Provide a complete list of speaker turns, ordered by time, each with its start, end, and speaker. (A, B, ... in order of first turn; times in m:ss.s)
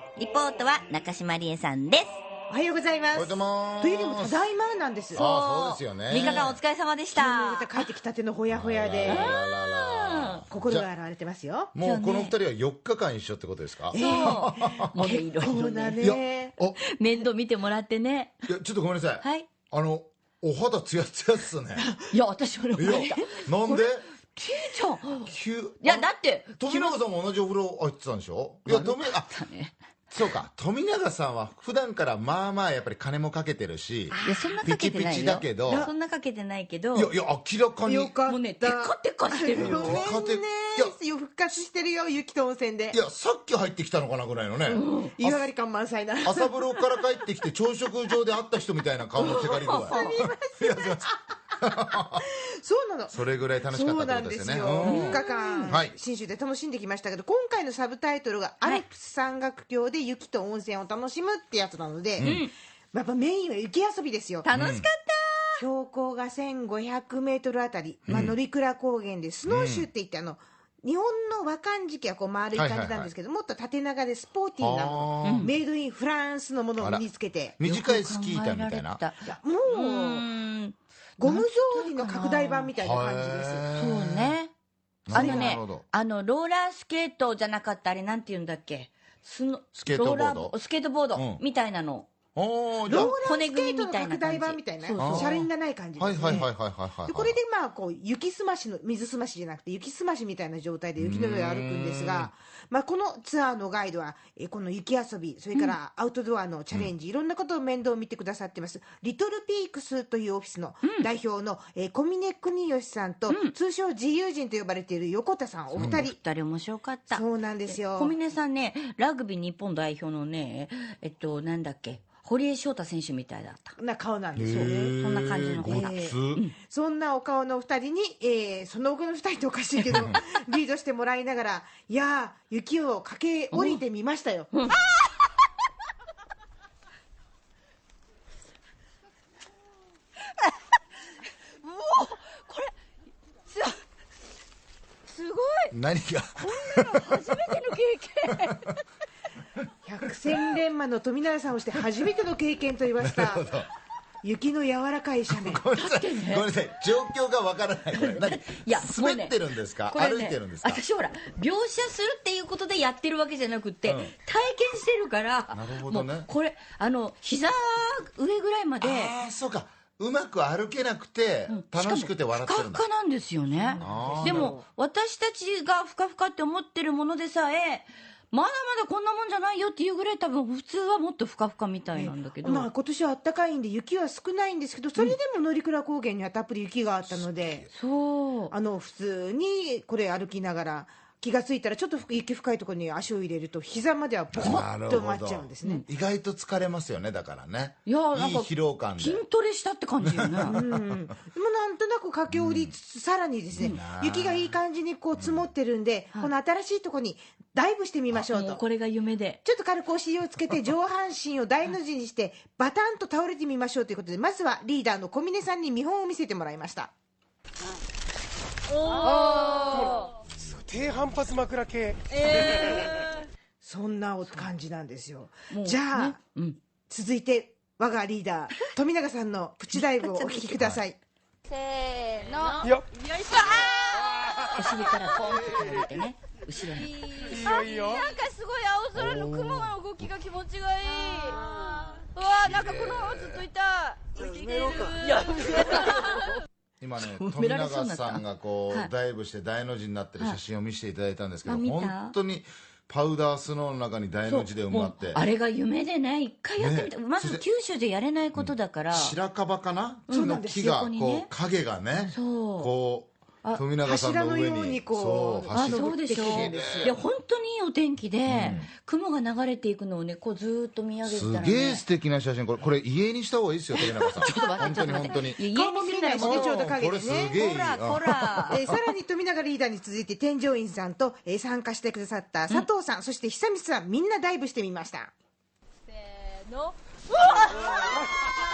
0:00.2-0:02.2 A
0:02.5-0:05.2 B
0:03.1-0:04.4 C
0:05.1-0:06.6 C
0:05.1-0:07.9 A
0:06.2-0:06.6 B
0:07.1-0:09.4 B
0:08.5-0:10.9 C
0:09.0-0:10.4 A
0:10.5-0:11.7 B
0:11.7-0:15.0 C
0:11.8-0:12.4 A
0:13.9-0:16.0 A
0:13.9-0:16.5 B
0:16.0-0:16.8 C
0:16.8-0:18.4 A
0:18.4-0:21.9 C
0:19.2-0:19.5 A
0:22.1-0:23.8 A
0:22.8-0:24.1 C
0:24.3-0:27.0 A
0:25.2-0:29.3 C
0:28.6-0:29.7 A
0:30.1-0:35.9 C
0:34.1-0:34.6 B
0:34.2-0:37.1 A
0:35.6-0:35.9 B
0:36.9-0:38.1 C
0:37.8-0:43.0 B
0:38.3-0:40.1 A
0:39.6-0:40.9 C
0:42.9-0:45.4 C
0:44.7-0:47.0 B
0:44.7-0:45.2 A
0:46.2-0:52.2 C
0:49.2-0:51.2 B
0:49.2-0:50.1 A
0:52.2-1:02.3 B
0:53.1-0:56.0 C
0:54.8-0:55.8 A
1:02.2-1:02.5 A
1:02.9-1:04.5 B
1:04.4-1:05.6 A
1:04.5-1:04.9 C
1:05.6-1:17.5 B
1:08.1-1:08.4 C
1:09.4-1:09.9 C
1:12.5-1:13.1 C
1:14.6-1:15.5 C
1:15.2-1:15.5 A
1:16.8-1:17.0 C
1:17.6-1:19.0 C
1:17.6-1:22.7 A
1:19.2-1:20.3 B
1:21.2-1:23.6 B
1:22.8-1:24.4 C
1:23.7-1:24.5 A
1:25.1-1:25.8 C
1:25.1-1:25.6 B
1:25.1-1:32.1 A
1:29.7-1:30.6 C
1:31.1-1:31.4 C
1:32.3-1:33.2 C
1:32.8-1:36.5 B
1:32.9-1:35.5 A
1:35.0-1:35.4 C
1:36.0-1:37.3 C
1:37.0-1:56.2 B
1:41.0-1:42.3 C
1:50.8-1:51.1 A
1:53.3-1:53.5 A
1:55.7-1:56.0 C
1:55.8-2:03.7 A
1:57.1-1:58.1 B
2:03.8-2:05.0 B
2:04.4-2:06.4 C
2:04.4-2:06.5 A
2:05.6-2:14.9 B
2:09.8-2:10.2 A
2:09.9-2:10.2 C
2:13.5-2:13.8 A
2:14.5-2:14.9 A
2:21.6-2:22.7 A
2:23.5-2:23.8 A
2:25.1-2:25.7 A
2:25.7-2:27.3 C
2:26.4-2:28.7 A
2:29.8-2:33.5 B
2:33.0-2:33.7 C
2:34.2-2:35.6 B
2:35.3-2:40.8 C
2:35.7-2:36.5 A
2:37.9-2:49.2 A
2:43.8-2:44.1 C
2:45.5-2:46.3 C
2:48.8-2:52.8 C
2:51.5-3:02.7 A
2:53.5-2:54.6 B
2:53.8-2:54.6 C
3:01.9-3:07.6 B
3:07.0-3:07.7 C
3:07.7-3:08.5 A
3:08.5-3:15.8 B
3:14.3-3:19.2 C
3:14.4-3:14.6 A
3:17.8-3:20.6 A
3:20.0-3:20.8 C
3:20.4-3:28.6 B
3:22.3-3:22.7 C
3:23.5-3:24.6 C
3:25.2-3:25.4 C
3:28.3-3:29.4 A
3:29.4-3:36.9 B
3:38.9-3:39.9 D
3:39.0-3:39.6 A
3:39.0-3:40.0 E
3:40.3-3:41.4 C
3:40.8-3:42.7 E
3:42.2-3:42.4 D
3:43.6-3:46.2 B
3:45.5-3:46.6 A
3:46.9-3:51.0 B
3:49.7-3:50.6 A
3:51.5-3:54.0 D
3:54.5-3:57.4 A
3:56.9-4:05.8 D
3:57.3-3:58.1 E
3:58.9-4:00.1 C
4:02.3-4:03.4 C
4:04.9-4:06.2 A
4:06.8-4:15.2 C
4:07.0-4:08.9 A
4:11.4-4:12.1 A
4:14.2-4:19.2 A
4:16.6-4:17.4 C
4:18.4-4:27.0 C
4:20.1-4:21.3 A
4:20.1-4:20.6 B
4:22.1-4:22.7 A
4:23.8-4:27.0 B
4:25.5-4:31.8 A
4:28.2-4:28.7 C
4:31.0-4:35.4 C
4:33.7-4:36.7 A
4:35.4-4:37.3 B
4:36.2-4:38.8 C
4:37.3-4:38.6 A
4:38.5-4:45.1 B
4:46.2-4:48.0 D
4:47.7-4:48.0 E